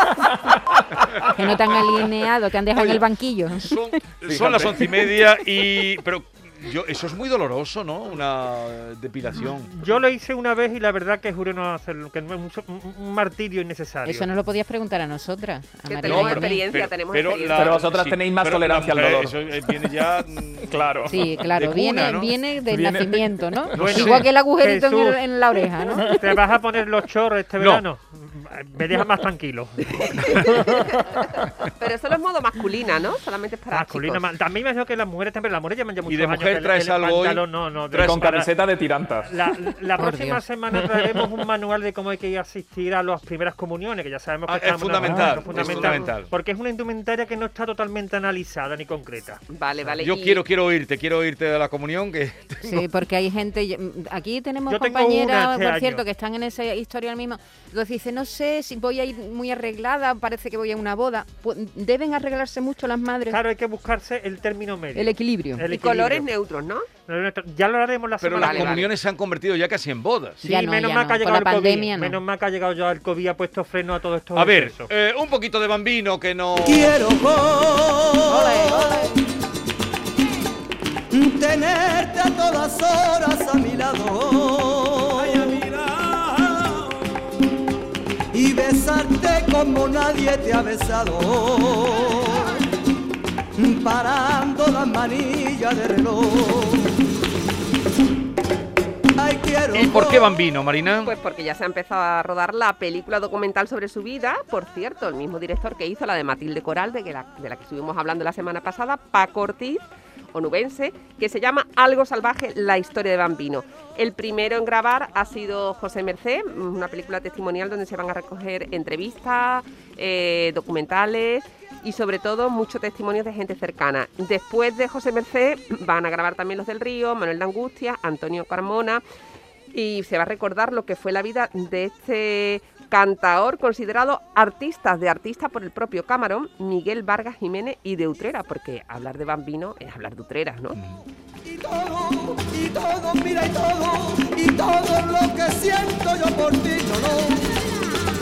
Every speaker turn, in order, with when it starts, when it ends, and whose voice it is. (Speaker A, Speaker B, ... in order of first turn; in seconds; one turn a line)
Speaker A: 0.5-0.8
Speaker B: 1.3-4.0
Speaker C: 2.7-3.0
Speaker C: 3.6-9.9
Speaker A: 4.3-5.0
Speaker D: 9.4-14.3
Speaker B: 14.1-16.6
Speaker E: 15.9-17.8
Speaker C: 16.0-22.3
Speaker A: 17.5-19.9
Speaker A: 20.6-21.3
Speaker B: 21.1-26.2
Speaker A: 22.7-24.0
Speaker C: 23.7-24.3
Speaker D: 23.8-25.2
Speaker D: 26.0-30.6
Speaker C: 27.6-27.8
Speaker E: 31.8-34.3
Speaker D: 33.7-38.5
Speaker C: 36.1-38.2
Speaker A: 38.0-39.4
Speaker D: 39.3-49.4
Speaker B: 40.0-40.4
Speaker C: 44.5-46.3
Speaker A: 45.0-45.3
Speaker E: 45.6-46.1
Speaker E: 49.5-50.4
Speaker C: 50.0-52.9
Speaker B: 52.6-63.4
Speaker D: 54.7-56.0
Speaker D: 63.3-66.3
Speaker B: 65.0-65.7
Speaker E: 65.7-66.9
Speaker D: 67.1-68.9
Speaker C: 68.2-70.4
Speaker E: 68.4-68.8
Speaker D: 70.4-74.9
Speaker B: 70.4-72.2
Speaker C: 74.3-77.0
Speaker F: 76.6-79.2
Speaker B: 78.3-79.1
Speaker F: 81.1-85.6
Speaker C: 85.2-86.9
Speaker F: 88.3-92.7
Speaker F: 93.6-97.0
Speaker F: 99.2-100.4
Speaker C: 99.7-101.1
Speaker E: 101.0-129.0
Speaker E: 129.7-140.8
Speaker F: 141.4-147.7